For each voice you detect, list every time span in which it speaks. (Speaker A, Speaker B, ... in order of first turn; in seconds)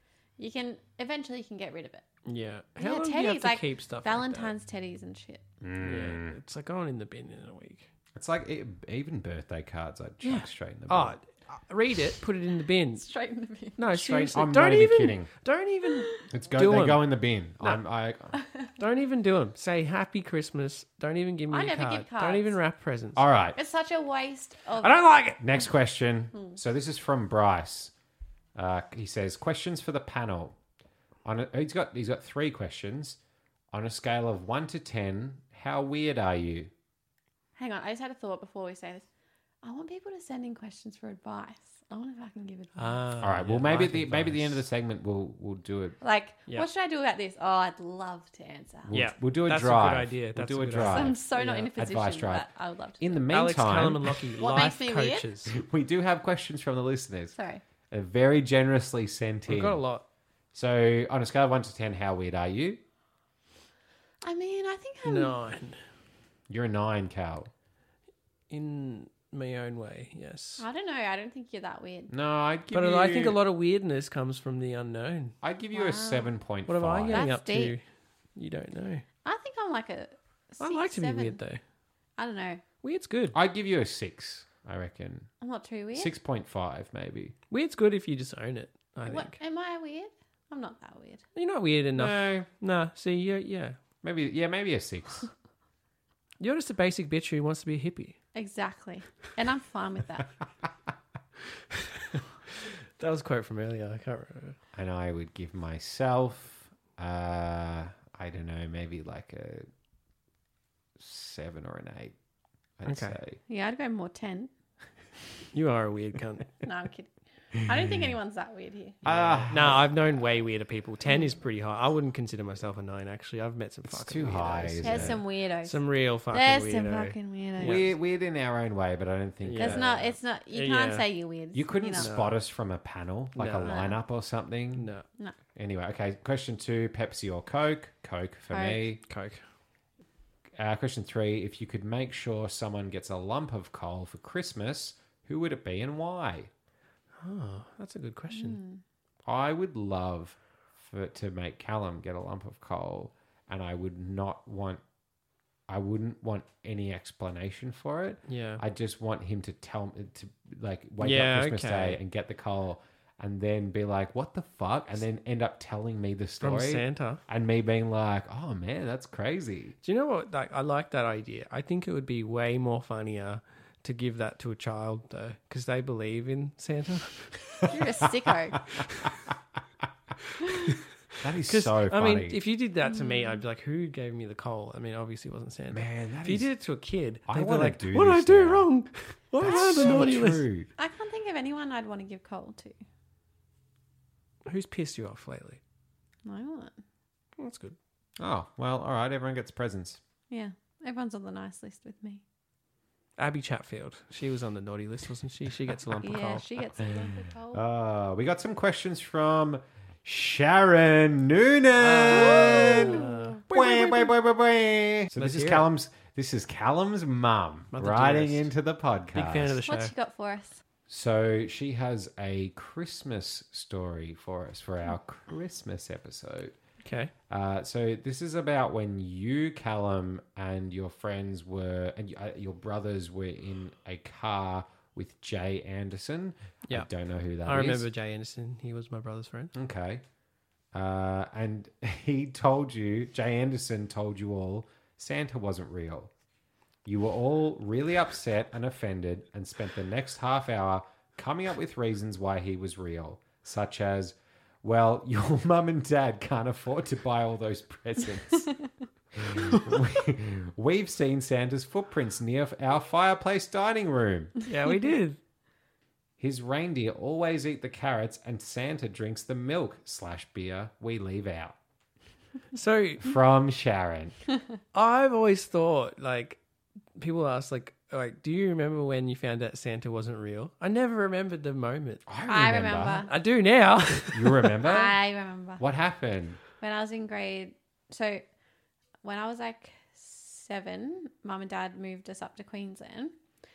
Speaker A: 0.4-2.0, 2.8-5.4, 13.0-13.8, 16.0-16.2, 18.3-18.7, 21.5-22.6, 23.6-25.0, 37.6-39.1, 39.6-43.0, 46.0-49.0, 50.9-53.2, 54.4-55.3, 57.4-57.6, 64.2-65.4, 70.6-72.1, 75.7-76.3, 77.1-77.8, 79.2-81.4, 82.2-82.6, 85.4-86.1, 89.1-91.2, 98.3-100.3, 113.5-114.5, 116.6-119.4, 124.8-127.9, 129.6-132.1, 133.7-134.0, 138.5-138.8, 148.3-148.8, 177.7-178.6, 182.8-183.4, 189.4-190.2, 190.8-192.8, 196.2-196.8, 200.3-202.2, 206.0-207.6, 212.1-213.4, 219.7-220.6, 282.3-283.1, 284.7-285.6, 286.6-288.2, 289.0-293.1
Speaker B: 2.3-4.5, 5.8-7.9, 10.2-13.1, 13.8-17.8, 18.8-23.2, 24.8-25.4, 42.8-44.6, 48.9-51.7, 53.3-55.6, 59.5-60.0, 65.0-65.8, 68.5-70.7, 72.7-75.4, 76.7-77.8, 78.4-79.0, 80.6-81.6, 82.8-83.4, 87.5-89.4, 91.3-93.8, 96.4-98.2, 103.0-104.6, 112.9-113.2, 115.5-116.6, 119.1-127.8, 129.4-131.1, 132.0-132.4, 133.4-133.8, 134.8-135.1, 139.1-139.4, 147.2-148.6, 158.3-158.6, 161.0-162.0, 166.4-167.2, 169.8-177.7, 181.5-190.4, 194.5-195.6, 197.4-197.8, 203.2-206.6, 211.8-214.1, 215.1-215.7, 217.7-218.5, 219.1-219.9, 226.8-227.1, 237.4-239.5, 264.5-265.2, 272.5-273.2, 274.7-276.4, 277.0-282.1, 283.1-284.6
Speaker C: 5.6-6.4, 8.2-11.2, 13.9-15.3, 16.3-18.4, 23.2-23.6, 25.4-27.9, 28.6-30.6, 31.2-33.2, 33.7-36.7, 43.2-46.0, 48.9-52.5, 53.0-54.3, 55.5-57.4, 57.9-59.8, 60.5-62.8, 66.5-67.5, 72.1-73.4, 75.4-77.2, 83.3-85.3, 85.9-87.4, 92.0-92.5, 94.0-95.3, 104.7-109.7, 111.0-112.2, 112.8-113.4, 119.0-120.0, 123.9-125.2, 127.6-129.9, 131.5-134.9, 135.6-139.0, 140.6-146.5, 149.2-154.8, 155.7-169.8, 181.2-182.4, 185.7-186.5, 187.3-188.7, 189.4-190.7, 198.2-200.0, 207.5-219.6, 220.9-226.5, 227.3-237.9, 239.6-240.0, 240.7-246.1, 246.8-258.5, 259.1-264.4, 266.2-271.6, 273.0-274.2, 282.1-283.1, 284.1-285.0, 285.6-286.4